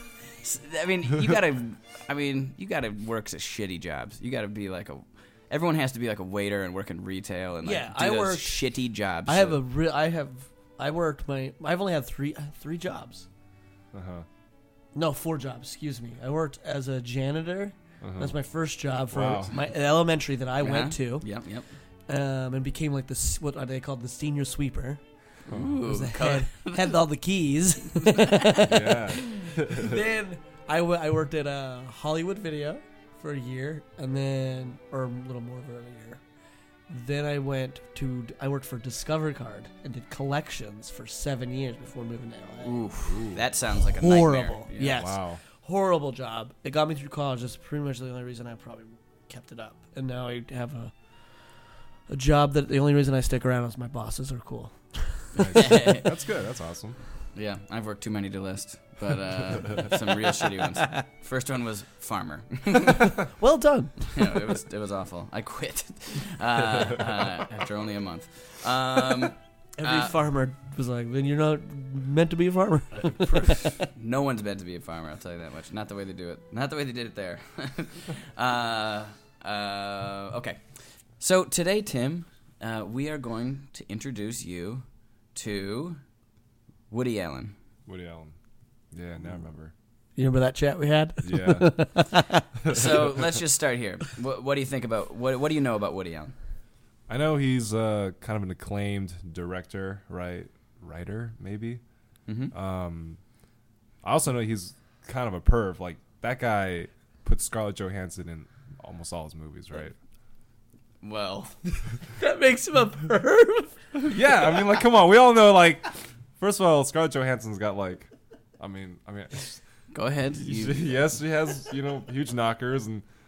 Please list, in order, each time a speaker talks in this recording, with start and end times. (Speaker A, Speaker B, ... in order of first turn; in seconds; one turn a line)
Speaker A: 0.4-9.6
Speaker B: 7.7-8.6
Speaker B: 9.3-13.3
Speaker C: 13.9-14.3
Speaker B: 14.9-21.3
Speaker C: 18.0-18.4
Speaker C: 19.1-19.6
Speaker A: 20.6-21.7
Speaker B: 22.1-25.0
Speaker C: 25.5-25.8
Speaker A: 25.5-27.0
Speaker B: 25.9-36.2
Speaker A: 28.0-28.6
Speaker C: 28.7-30.0
Speaker B: 36.9-42.9
Speaker A: 42.6-45.0
Speaker C: 43.1-43.4
Speaker B: 43.9-50.9
Speaker C: 44.8-45.4
Speaker B: 52.1-55.3
Speaker C: 55.4-57.0
Speaker A: 55.5-56.1
Speaker A: 57.3-63.1
Speaker B: 63.4-64.1
Speaker A: 64.1-70.1
Speaker B: 69.8-73.7
Speaker A: 73.8-84.8
Speaker A: 85.3-86.0
Speaker A: 86.9-87.5
Speaker C: 87.9-88.3
Speaker C: 88.9-89.7
Speaker B: 90.2-92.4
Speaker C: 91.2-91.8
Speaker C: 92.6-93.4
Speaker A: 92.7-96.3
Speaker C: 97.1-101.8
Speaker A: 102.3-102.5
Speaker C: 102.5-103.2
Speaker C: 104.0-110.0
Speaker A: 111.0-111.6
Speaker B: 112.2-113.8
Speaker C: 114.1-119.6
Speaker A: 119.9-120.9
Speaker C: 120.3-123.0